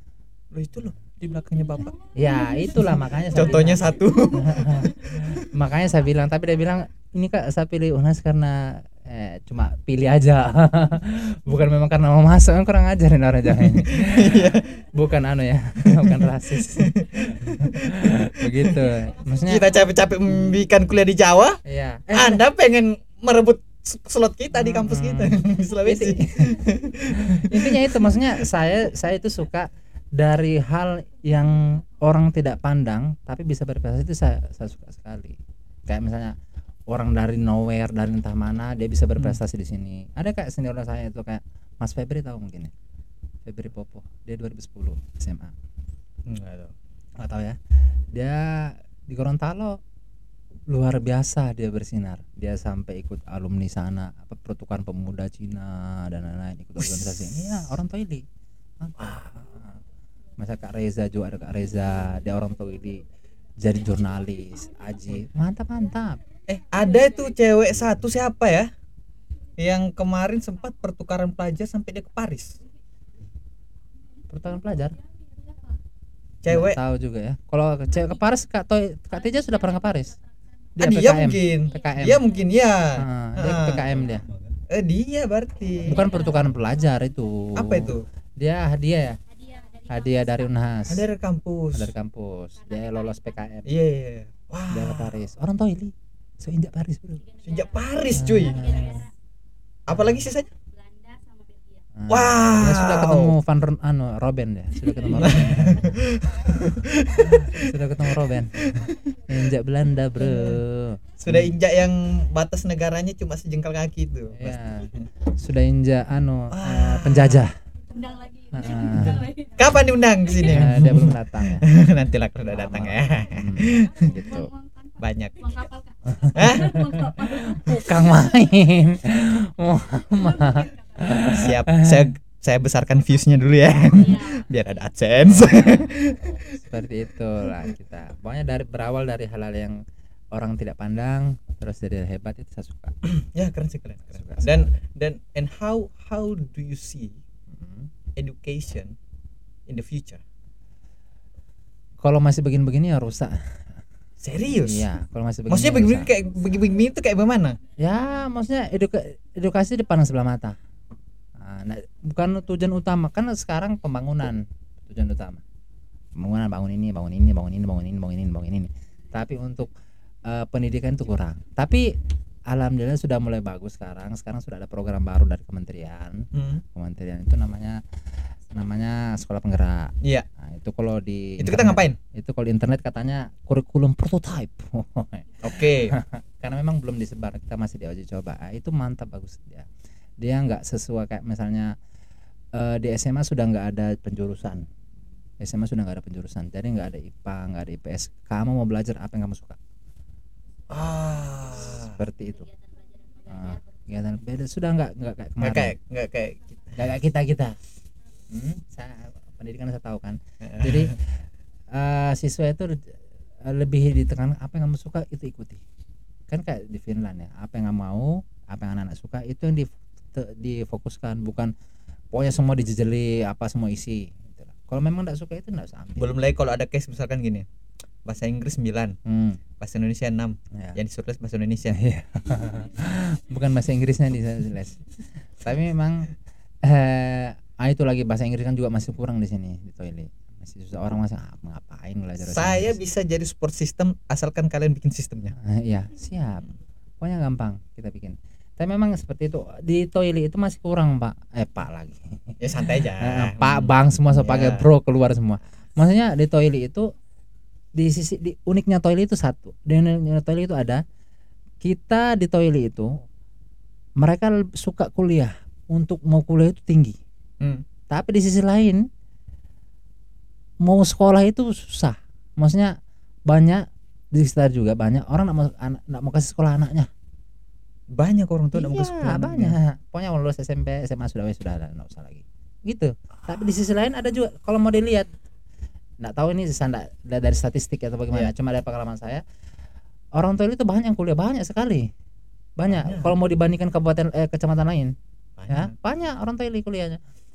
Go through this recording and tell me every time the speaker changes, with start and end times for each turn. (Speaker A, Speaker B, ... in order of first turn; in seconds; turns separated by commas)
Speaker A: 0.5-2.0, Speaker B: 2.1-19.7, Speaker A: 2.8-5.5, Speaker A: 13.6-14.8, Speaker A: 15.8-18.9, Speaker A: 19.5-21.6, Speaker B: 21.6-22.4, Speaker A: 22.1-28.4, Speaker B: 24.5-36.4, Speaker B: 36.9-42.7, Speaker B: 43.5-45.5, Speaker A: 46.3-46.7, Speaker B: 47.2-47.6, Speaker B: 48.1-49.8, Speaker B: 50.7-58.2, Speaker A: 56.8-57.7, Speaker B: 58.8-59.8, Speaker A: 59.0-59.3, Speaker B: 60.4-63.0, Speaker B: 63.6-66.2, Speaker A: 66.5-68.7, Speaker A: 69.6-72.6, Speaker B: 74.3-75.0, Speaker C: 75.3-75.8, Speaker A: 76.4-76.8, Speaker B: 76.5-80.2, Speaker C: 79.4-80.2, Speaker B: 80.8-82.2, Speaker A: 80.8-84.1, Speaker C: 81.3-82.6, Speaker B: 83.0-84.2, Speaker A: 84.7-86.2, Speaker C: 85.8-86.5, Speaker B: 85.9-89.2, Speaker A: 87.6-88.0, Speaker C: 89.3-90.8, Speaker B: 89.9-91.1, Speaker A: 90.9-91.9, Speaker B: 91.7-93.7, Speaker C: 92.6-93.5, Speaker A: 93.7-95.2, Speaker B: 94.7-97.2, Speaker C: 97.2-99.1, Speaker A: 97.4-99.0, Speaker B: 98.1-99.0, Speaker A: 99.9-100.5, Speaker B: 99.9-100.3, Speaker C: 100.7-101.9, Speaker B: 102.0-106.0, Speaker A: 102.1-103.3, Speaker A: 105.1-107.7, Speaker B: 107.3-111.5, Speaker A: 108.6-108.9, Speaker A: 110.2-110.6, Speaker A: 111.2-115.1, Speaker B: 114.3-117.5, Speaker A: 116.5-117.5, Speaker C: 117.9-120.7, Speaker B: 118.5-119.3, Speaker A: 119.6-124.1, Speaker B: 120.4-121.7, Speaker B: 122.5-124.5, Speaker C: 124.0-128.2, Speaker A: 125.0-125.6, Speaker B: 126.1-132.1, Speaker A: 126.3-126.9, Speaker C: 130.2-131.3, Speaker A: 131.3-136.4, Speaker C: 133.8-134.5, Speaker B: 135.2-135.9, Speaker B: 136.5-139.8, Speaker B: 140.3-143.0, Speaker A: 143.0-147.2, Speaker B: 144.2-144.7, Speaker B: 147.5-147.9, Speaker A: 148.2-148.9, Speaker A: 149.7-150.2, Speaker B: 152.0-153.4, Speaker A: 154.2-154.9, Speaker B: 154.6-156.1, Speaker A: 155.5-157.6, Speaker B: 157.8-160.6, Speaker B: 161.4-165.4, Speaker B: 166.2-169.7, Speaker B: 170.3-171.9, Speaker B: 172.5-177.8, Speaker A: 176.3-176.6, Speaker B: 178.5-189.7, Speaker A: 181.4-182.0, Speaker A: 185.4-186.0, Speaker B: 190.2-191.8, Speaker B: 192.5-194.7, Speaker B: 195.4-199.6, Speaker A: 200.7-202.0, Speaker C: 201.4-203.9, Speaker B: 201.7-202.5, Speaker B: 203.3-205.8, Speaker A: 205.4-206.4, Speaker B: 206.8-207.6, Speaker B: 208.3-211.1, Speaker A: 210.4-211.0, Speaker B: 211.7-212.9, Speaker B: 213.4-215.6, Speaker B: 216.3-221.5, Speaker B: 222.1-226.2, Speaker A: 226.0-227.5, Speaker A: 228.1-229.0, Speaker B: 229.1-229.4, Speaker A: 229.6-231.8, Speaker B: 230.5-230.8, Speaker B: 231.7-234.8, Speaker B: 235.4-242.8, Speaker A: 242.2-245.3, Speaker B: 245.4-246.5, Speaker B: 247.0-256.9, Speaker A: 252.4-254.7, Speaker B: 257.8-260.8, Speaker B: 261.6-262.9, Speaker B: 264.0-267.0, Speaker B: 267.9-268.9, Speaker B: 270.6-272.8, Speaker B: 273.3-276.9, Speaker A: 277.9-279.6, Speaker B: 278.5-285.1, Speaker B: 286.0-289.2, Speaker B: 290.1-291.9, Speaker B: 292.6-294.9, Speaker A: 292.7-293.1, Speaker A: 295.4-295.7, Speaker B: 295.5-297.0